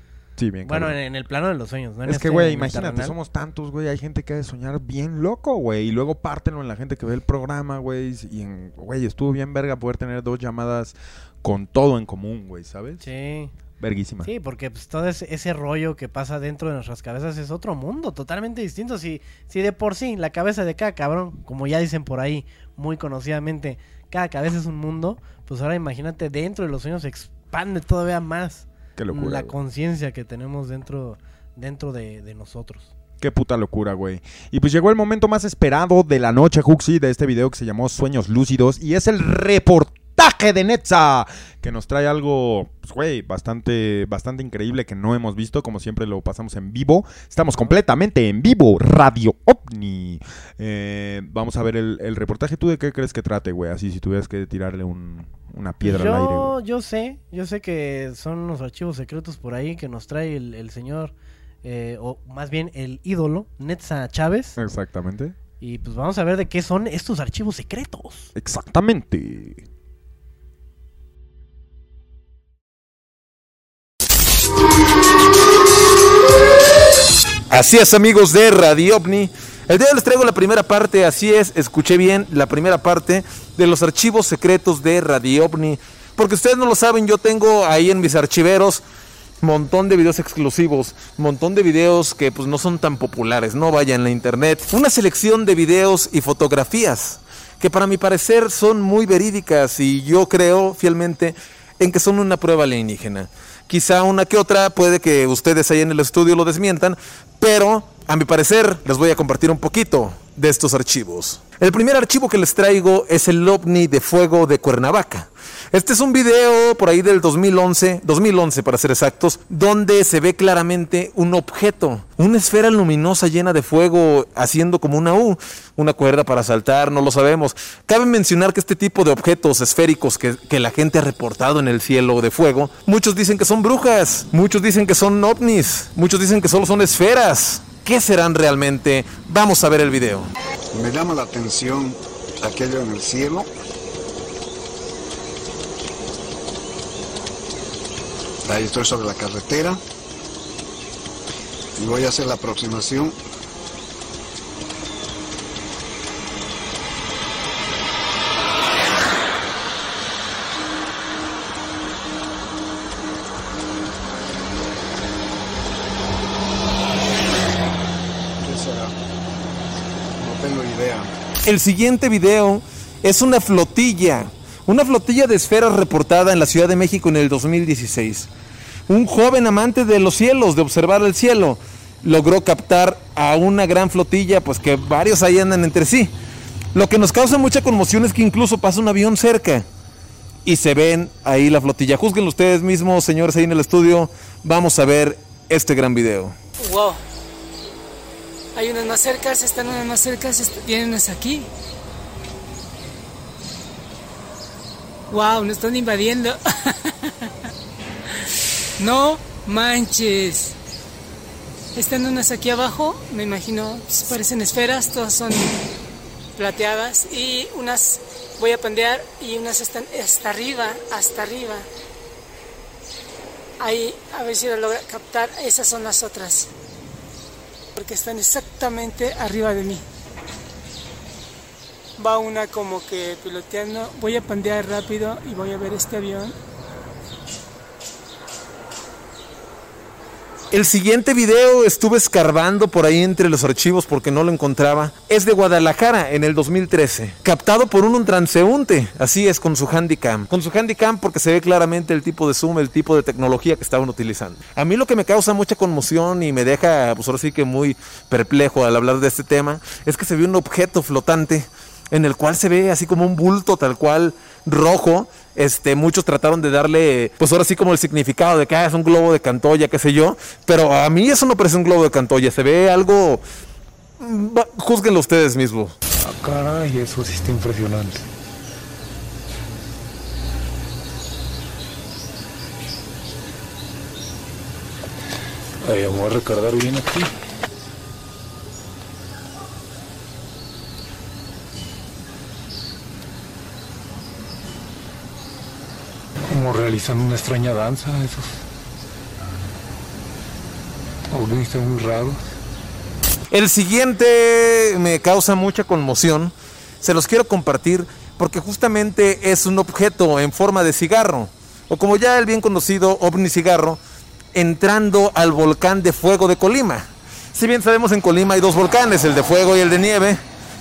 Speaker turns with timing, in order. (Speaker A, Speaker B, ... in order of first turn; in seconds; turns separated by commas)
Speaker A: 0.4-1.0, Speaker B: 0.7-3.1, Speaker A: 2.0-13.1, Speaker B: 13.0-13.5, Speaker A: 13.8-14.3, Speaker B: 14.2-32.9, Speaker A: 29.0-29.6, Speaker A: 33.2-56.5, Speaker B: 55.8-64.6, Speaker A: 64.6-65.3, Speaker B: 65.6-68.3, Speaker A: 68.3-69.6, Speaker C: 77.5-88.8, Speaker C: 89.4-140.3, Speaker D: 140.7-143.5, Speaker D: 148.4-149.8, Speaker D: 151.8-153.2, Speaker D: 168.4-168.9, Speaker D: 170.2-171.1, Speaker C: 171.4-178.3, Speaker C: 178.9-186.1, Speaker C: 186.7-189.7, Speaker C: 190.4-196.3, Speaker E: 196.6-197.0, Speaker E: 198.5-201.5, Speaker E: 205.1-206.4, Speaker E: 208.8-210.5, Speaker E: 211.7-215.6, Speaker E: 216.3-221.7, Speaker E: 223.6-226.5, Speaker E: 227.7-229.8, Speaker E: 232.0-236.3, Speaker C: 240.5-273.2, Speaker C: 274.0-275.7, Speaker F: 296.4-298.1, Speaker F: 301.2-302.1, Speaker C: 303.3-313.8, Speaker C: 314.3-320.2